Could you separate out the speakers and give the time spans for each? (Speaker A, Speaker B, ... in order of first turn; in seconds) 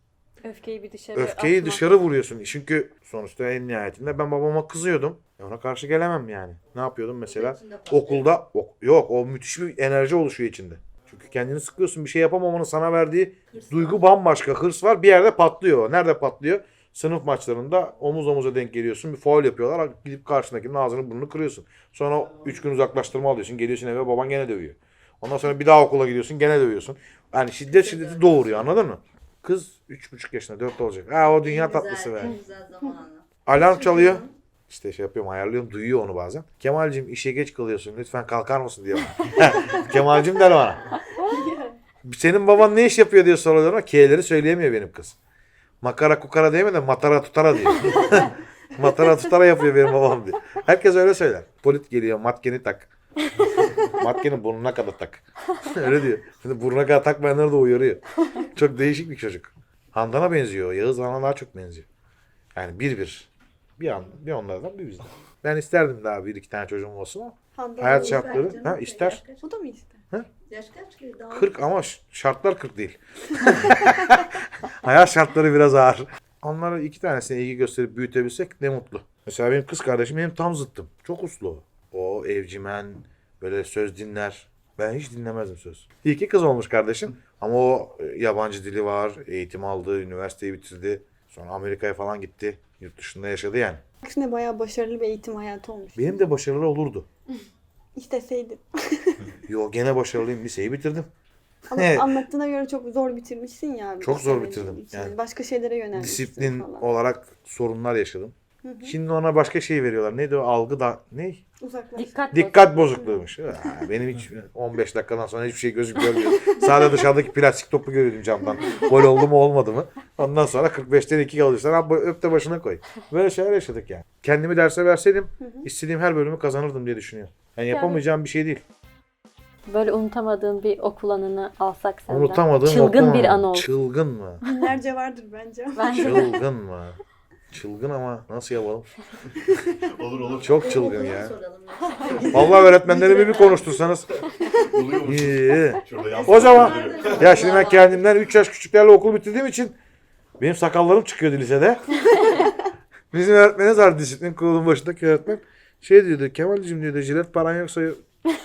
Speaker A: 0.4-1.8, 112.0-112.6, 127.7-128.0, 129.7-133.7, 135.8-136.4
Speaker B: 1.1-32.3, 33.5-40.8, 42.0-45.1, 45.8-52.9, 53.8-61.9, 62.5-69.2, 71.3-93.8, 96.0-97.1, 99.5-101.1, 101.7-102.1, 104.0-105.1, 105.9-108.3, 108.8-111.4, 112.3-128.6, 132.1-134.4, 135.9-137.0, 137.5-138.9, 140.3-141.3, 142.3-144.1, 144.7-149.7, 150.4-151.8, 153.1-158.0
Speaker C: 7.3-8.3, 27.7-28.7, 31.3-34.3, 67.8-69.4, 70.5-71.5, 140.0-143.6, 145.9-148.1
Speaker D: 41.2-41.8, 67.5-68.6, 69.4-70.0, 94.0-96.2, 98.0-99.3, 101.7-106.9, 108.6-109.0, 111.6-112.3, 112.9-113.2, 125.4-125.7, 134.4-136.2, 139.5-140.2, 142.1-142.7